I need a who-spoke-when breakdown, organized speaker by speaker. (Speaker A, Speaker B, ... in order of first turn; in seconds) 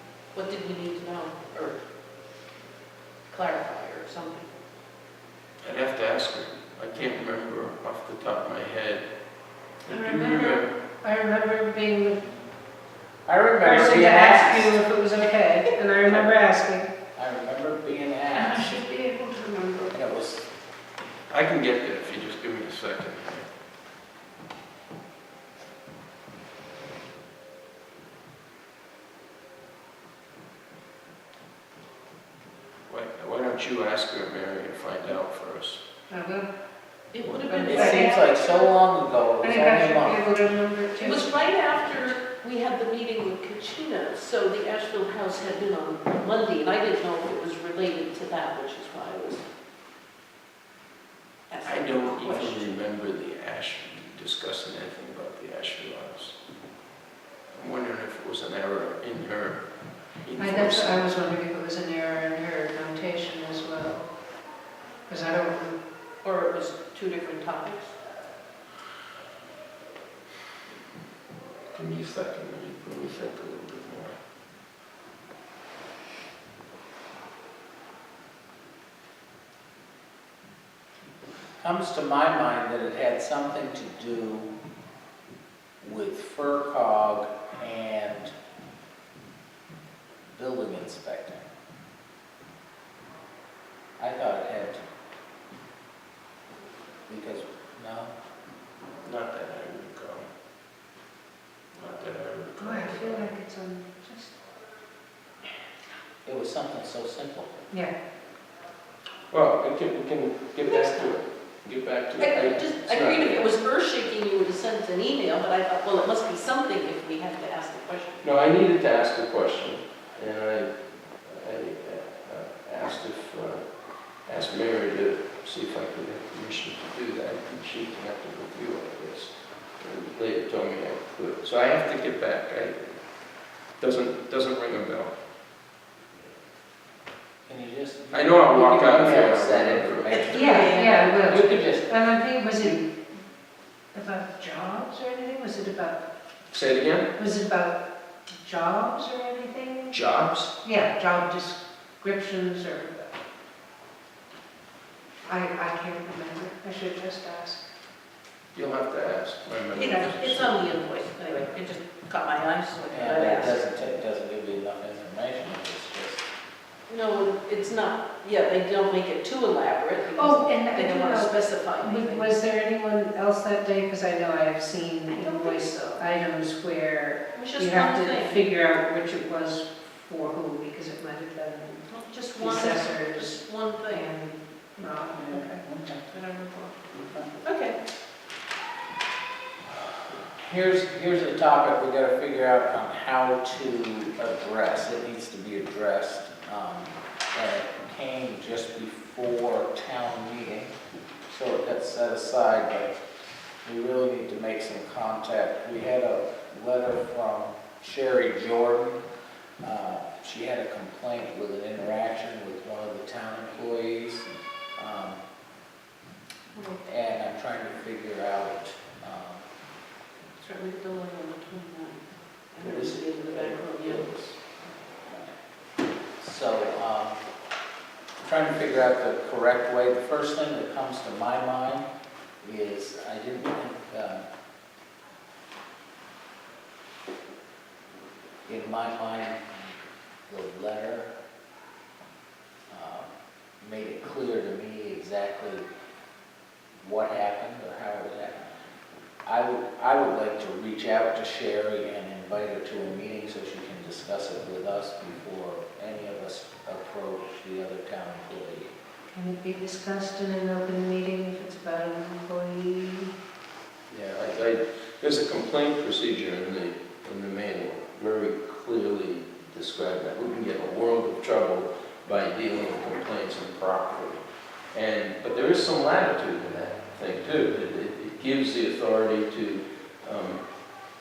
Speaker A: 0.3-1.8, 3.3-4.5, 37.1-38.7, 41.0-49.4, 51.5-52.7, 66.2-67.9, 110.7-111.1, 112.2-118.2, 140.1-141.7, 159.7-163.6, 166.9-172.3, 175.1-175.6, 177.3-178.4, 181.9-184.1, 186.1-186.7, 187.4-187.8, 216.5-216.8, 220.4-224.1
Speaker B: 5.6-9.1, 9.8-10.7, 21.3-23.5, 32.9-35.8, 51.6-56.4, 57.5-59.6, 60.1-61.1, 71.7-74.2, 99.0-100.3, 101.7-103.3, 109.3-113.5, 118.2-123.7, 124.2-133.0, 133.8-135.1, 138.1-140.3, 146.5-147.1, 149.9-150.5, 158.5-160.6, 222.6-224.4, 263.9-280.4
Speaker C: 9.9-12.4, 13.6-16.9, 18.3-19.9, 36.1-36.5, 37.4-38.2, 39.4-41.3, 60.4-64.1, 65.1-65.8, 102.6-104.3, 140.3-142.9, 143.9-146.0, 147.2-150.0, 150.6-153.1, 155.2-157.6, 170.1-181.9, 182.4-185.6, 259.1-263.1
Speaker D: 13.2-14.8, 17.1-18.8, 19.9-20.5, 37.7-40.2, 81.6-84.5, 85.8-88.3, 90.3-91.5, 94.0-94.8, 97.1-98.1, 106.2-107.6, 137.4-141.9, 162.9-166.2, 185.1-186.1, 187.0-187.3, 189.7-200.7, 201.3-203.0, 203.6-209.0, 209.6-215.2, 216.8-219.4, 226.2-227.2, 228.2-231.9, 232.4-234.2, 238.4-239.5, 240.3-241.1, 242.7-245.7, 246.8-248.5, 249.2-258.7